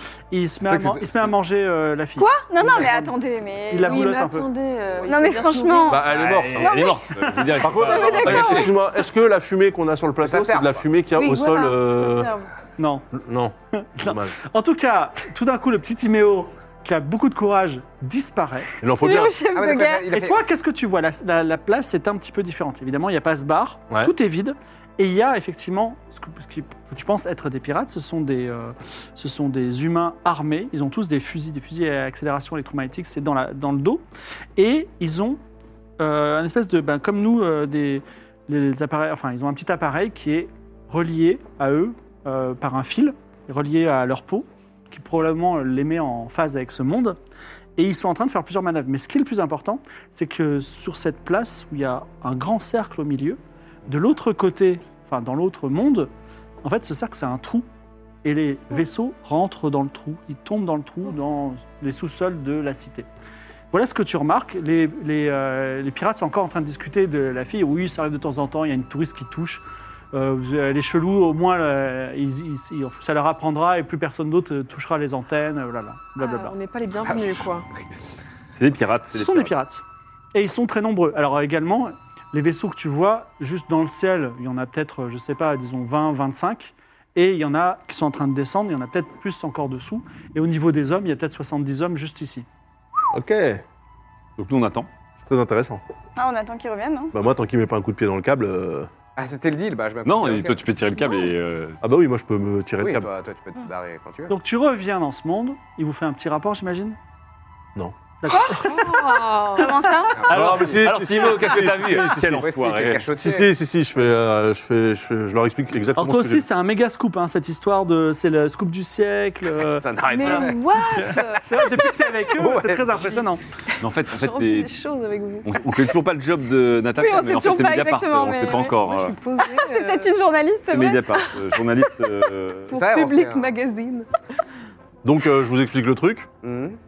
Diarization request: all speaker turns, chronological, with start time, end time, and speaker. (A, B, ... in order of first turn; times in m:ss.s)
0:00.3-0:03.1 A
0:00.7-0:01.2 B
0:02.2-0:04.1 C
0:03.7-0:04.5 A
0:03.8-0:06.0 D
0:05.0-0:07.1 C
0:05.9-0:06.9 E
0:06.1-0:08.7 B
0:07.6-0:12.3 E
0:07.7-0:08.7 C
0:10.2-0:10.8 F
0:11.1-0:12.5 D
0:12.8-0:13.1 A
0:13.1-0:14.4 E
0:13.8-0:18.7 A
0:18.8-0:19.4 E
0:19.0-0:20.1 C
0:19.5-0:20.4 F
0:20.1-0:34.0 A
0:34.6-0:35.4 A
0:36.0-0:47.2 A
0:47.8-0:56.1 A
0:56.6-0:57.7 A
0:58.2-1:03.1 A
1:03.7-1:16.6 A
1:16.2-1:17.7 D
1:17.0-1:17.4 F
1:18.6-1:19.5 B
1:19.1-1:19.8 A
1:20.3-1:32.5 A
1:33.1-1:33.6 E
1:34.4-1:34.9 B
1:35.2-1:35.8 E
1:36.2-1:37.1 C
1:37.1-1:38.9 E
1:39.2-1:40.6 F
1:40.0-1:41.8 B
1:41.8-1:43.1 E
1:42.8-1:44.3 F
1:44.3-1:47.0 A
1:48.2-1:49.4 A
1:48.3-1:48.6 C
1:48.4-1:50.0 D
1:49.5-1:50.3 C
1:50.2-1:50.6 F
1:50.3-1:52.5 E
1:50.3-1:53.0 B
1:51.9-1:53.5 F
1:53.1-1:56.5 E
1:56.0-2:03.4 A
1:59.6-2:00.6 F
2:00.0-2:00.6 B
2:00.1-2:01.6 D
2:02.3-2:03.2 F
2:03.8-2:04.7 B
2:04.1-2:05.6 D
2:05.4-2:09.2 B
2:07.0-2:08.8 C
2:08.7-2:10.2 D
2:09.4-2:11.0 C
2:10.7-2:12.8 B
2:12.7-2:14.1 D
2:12.7-2:13.6 F
2:15.0-2:16.3 E
2:16.4-2:16.8 F